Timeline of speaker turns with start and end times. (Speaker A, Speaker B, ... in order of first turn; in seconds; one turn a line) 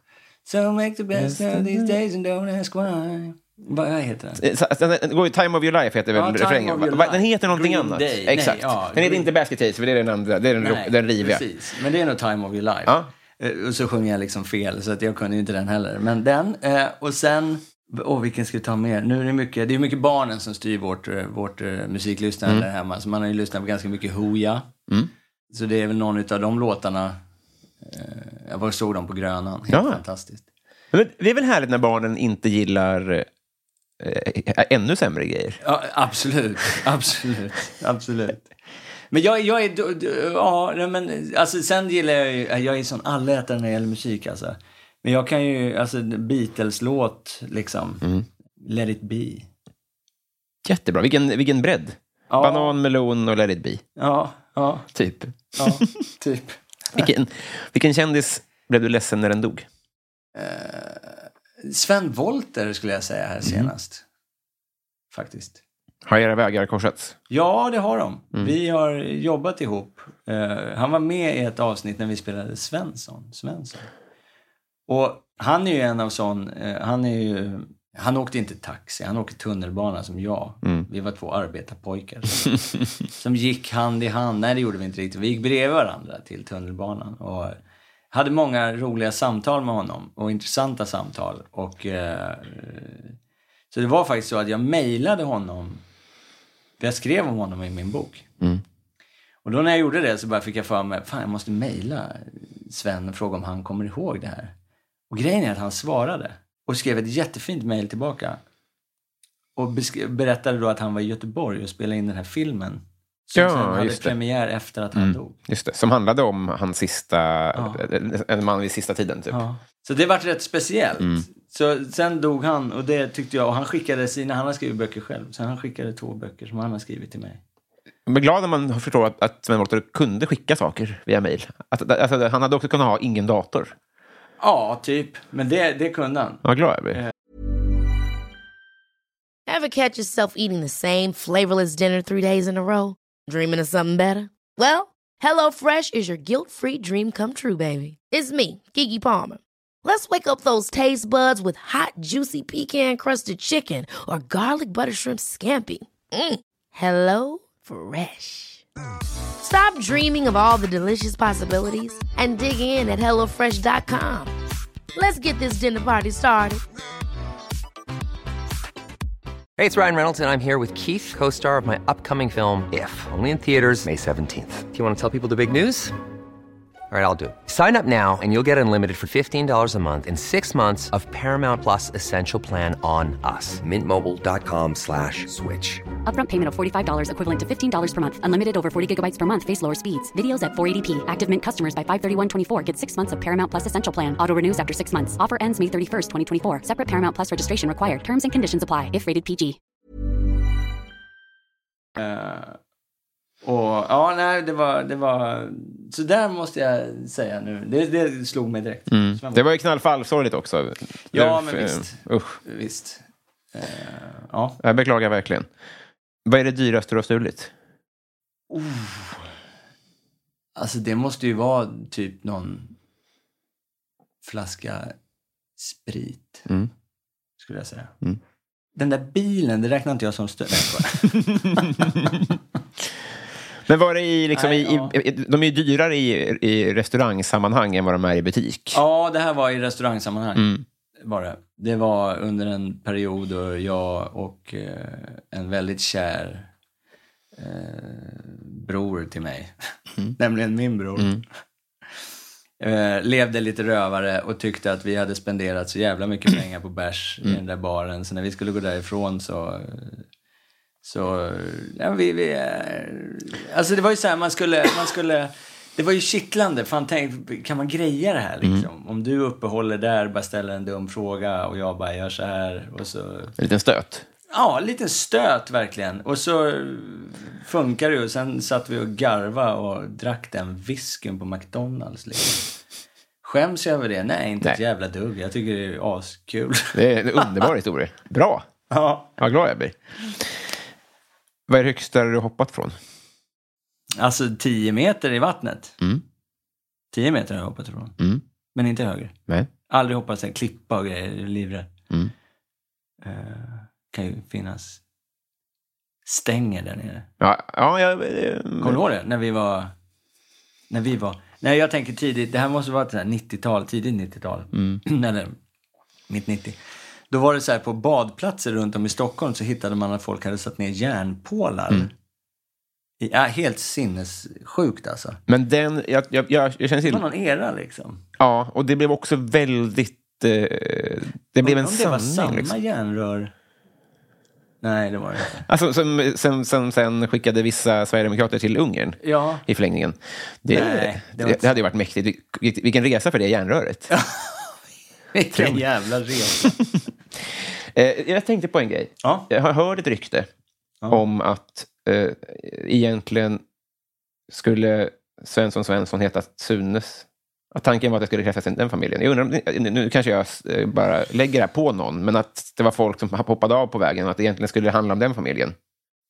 Speaker A: 0.5-4.4
Speaker B: 1.2-1.9
Speaker B: 4.4-11.4
Speaker A: 6.1-9.3
Speaker A: 10.6-24.7
Speaker A: 25.5-27.2
Speaker A: 27.8-30.4
Speaker B: 29.7-30.0
Speaker B: 30.9-33.3
Speaker B: 34.0-35.6
Speaker A: 35.6-38.5
Speaker A: 39.1-48.1
Speaker A: 48.6-49.5
Speaker B: 50.6-53.8
Speaker A: 52.3-52.8
Speaker A: 54.0-54.9
Speaker B: 54.9-55.9
Speaker A: 55.6-57.0
Speaker B: 56.9-59.7
Speaker A: 60.3-64.0
Speaker B: 63.4-63.7
Speaker A: 65.1-65.6
Speaker B: 66.0-67.2
Speaker A: 67.3-73.9
Speaker A: 74.9-82.6
Speaker A: 83.1-87.6
Speaker A: 88.1-93.1
Speaker A: 93.7-95.8
Speaker A: 96.8-98.3
Speaker A: 99.4-104.5
Speaker A: 105.1-108.4
Speaker A: 109.5-115.4
Speaker B: 113.3-114.1
Speaker B: 114.9-119.4
Speaker A: 117.5-117.8
Speaker A: 119.3-127.4
Speaker B: 121.0-121.2
Speaker B: 128.1-133.7
Speaker A: 134.4-137.1
Speaker B: 136.4-137.0
Speaker C: 139.5-158.6
Speaker C: 159.4-164.3
Speaker C: 164.9-166.6
Speaker D: 169.6-175.9
Speaker D: 176.9-185.8
Speaker E: 186.1-199.6
Speaker A: 201.9-202.6
Speaker A: 203.4-209.4
Speaker B: 208.9-212.4
Speaker A: 211.1-214.6
Speaker B: 214.6-215.5
Speaker B: 216.2-217.5
Speaker A: 218.5-219.2
Speaker A: 220.6-222.8
Speaker A: 224.2-224.9
Speaker A: 225.6-226.5
Speaker A: 227.4-227.9
Speaker A: 228.8-232.2
Speaker B: 231.6-232.1
Speaker B: 233.7-238.8
Speaker A: 234.3-234.9
Speaker A: 238.7-240.5
Speaker B: 240.3-240.6
Speaker A: 241.0-246.5
Speaker A: 247.3-249.5
Speaker A: 250.2-251.2
Speaker B: 251.0-251.2
Speaker A: 252.6-260.1
Speaker A: 260.8-273.3
Speaker B: 273.4-274.0
Speaker A: 274.3-282.4
Speaker A: 283.2-287.4
Speaker B: 286.7-288.4
Speaker A: 288.7-289.1
Speaker B: 289.2-290.3
Speaker B: 291.5-292.8
Speaker A: 294.0-295.8
Speaker A: 296.9-298.0
Speaker A: 298.5-299.1
Speaker A: 299.7-301.7
Speaker A: 303.0-304.8
Speaker A: 306.1-307.1
Speaker B: 307.2-308.8
Speaker A: 308.6-309.7
Speaker A: 310.7-315.4
Speaker B: 314.5-314.8
Speaker A: 316.1-316.6
Speaker A: 317.1-321.9
Speaker A: 323.0-325.2
Speaker B: 325.3-327.0
Speaker A: 326.8-328.0
Speaker B: 328.2-332.5
Speaker A: 331.4-333.3
Speaker A: 334.6-335.4
Speaker B: 335.4-343.9
Speaker A: 339.0-339.4
Speaker A: 340.5-341.6
Speaker A: 343.9-344.5
Speaker A: 345.1-346.6
Speaker B: 345.3-345.6
Speaker B: 347.7-350.3
Speaker A: 349.0-349.3
Speaker B: 350.9-353.4
Speaker B: 354.3-365.5